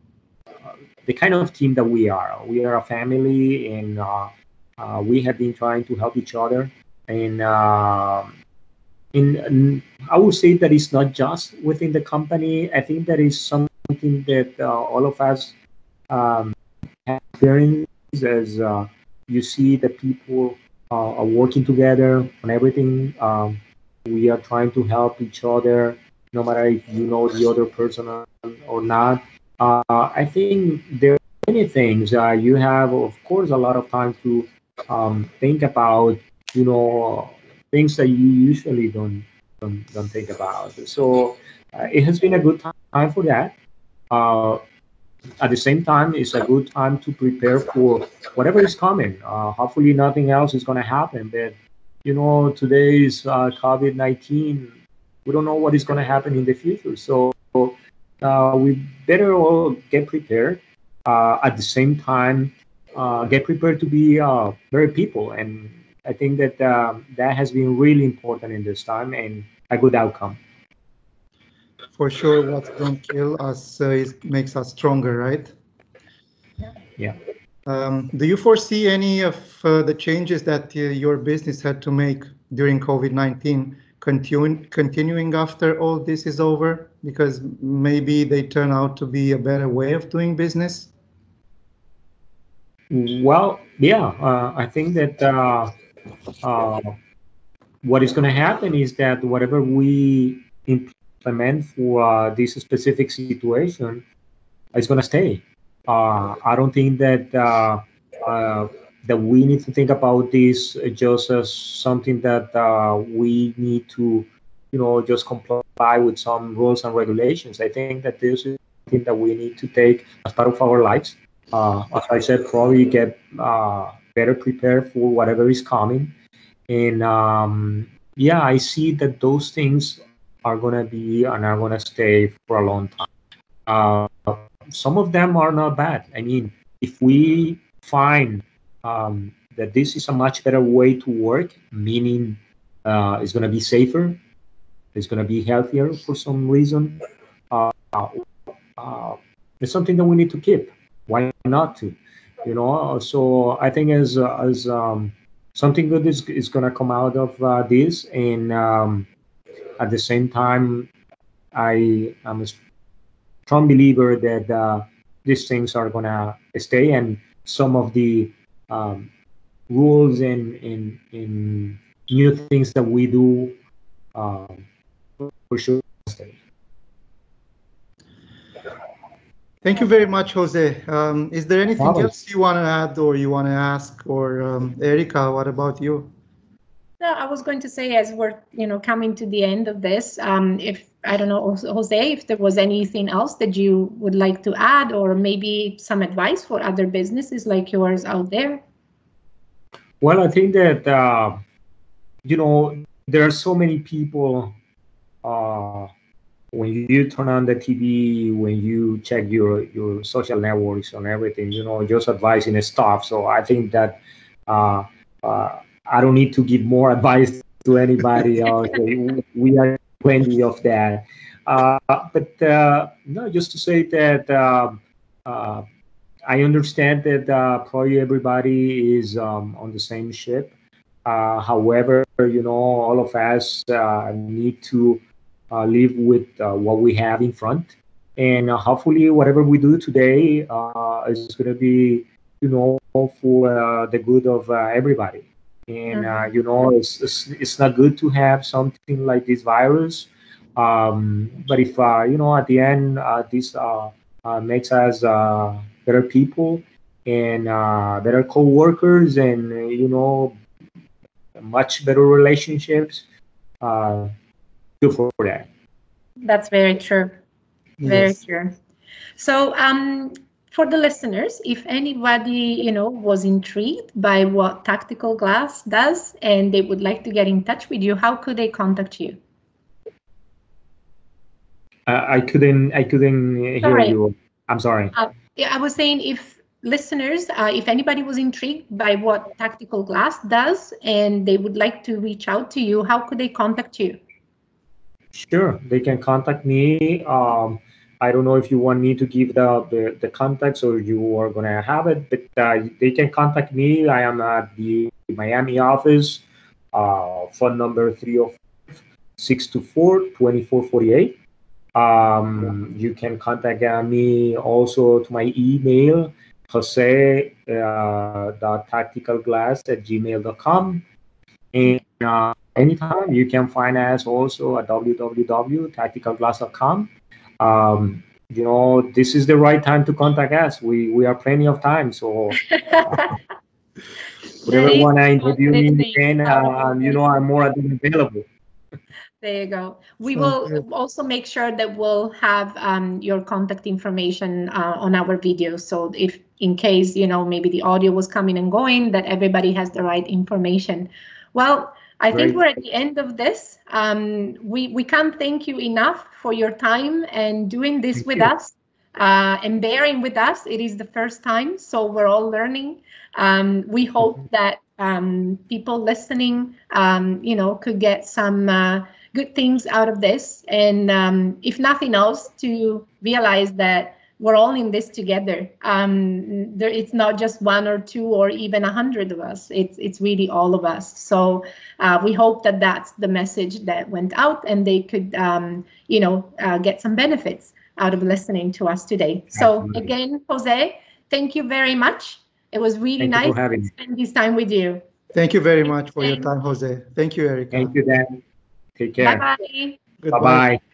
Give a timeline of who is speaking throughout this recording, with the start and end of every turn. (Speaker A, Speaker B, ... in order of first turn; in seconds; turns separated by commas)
Speaker A: 1.0-8.3, Speaker A: 9.1-15.5, Speaker A: 16.1-16.5, Speaker A: 17.1-43.5, Speaker A: 44.1-44.6, Speaker A: 45.4-54.7, Speaker A: 55.2-70.4, Speaker B: 72.0-75.5, Speaker B: 77.7-90.9, Speaker A: 92.9-95.7, Speaker A: 96.4-96.9, Speaker A: 97.8-104.0, Speaker A: 104.7-126.1, Speaker A: 126.7-133.1, Speaker A: 133.7-144.2, Speaker A: 144.9-148.2, Speaker A: 148.8-159.1, Speaker A: 159.8-160.9, Speaker A: 161.5-162.6, Speaker A: 163.4-169.1, Speaker A: 169.7-173.6, Speaker A: 174.1-174.7, Speaker A: 175.2-176.4, Speaker B: 179.6-186.1, Speaker A: 181.8-182.1, Speaker C: 187.0-198.6, Speaker A: 200.0-201.4, Speaker A: 202.2-204.6, Speaker A: 205.2-205.9, Speaker A: 206.5-225.6, Speaker A: 226.3-230.5, Speaker A: 231.1-260.4, Speaker C: 245.9-246.3, Speaker A: 261.4-263.0, Speaker A: 263.6-264.1, Speaker A: 264.8-265.5, Speaker C: 266.2-267.2, Speaker B: 267.8-268.2, Speaker C: 267.8-268.5, Speaker C: 269.2-279.2, Speaker A: 281.9-284.9, Speaker C: 283.6-284.0, Speaker C: 284.9-294.0, Speaker A: 295.1-308.4, Speaker A: 309.2-311.2, Speaker A: 311.7-320.8, Speaker A: 321.5-333.1, Speaker C: 332.5-333.1, Speaker A: 334.4-338.3, Speaker C: 334.4-337.1, Speaker C: 339.2-394.8, Speaker B: 340.1-340.6, Speaker A: 352.1-352.4, Speaker A: 358.0-358.3, Speaker A: 389.3-389.9, Speaker A: 393.0-393.7, Speaker B: 395.1-397.7, Speaker C: 395.9-396.3, Speaker A: 397.5-398.2, Speaker A: 398.8-399.2, Speaker C: 399.0-399.8, Speaker B: 400.0-400.5, Speaker A: 400.1-400.6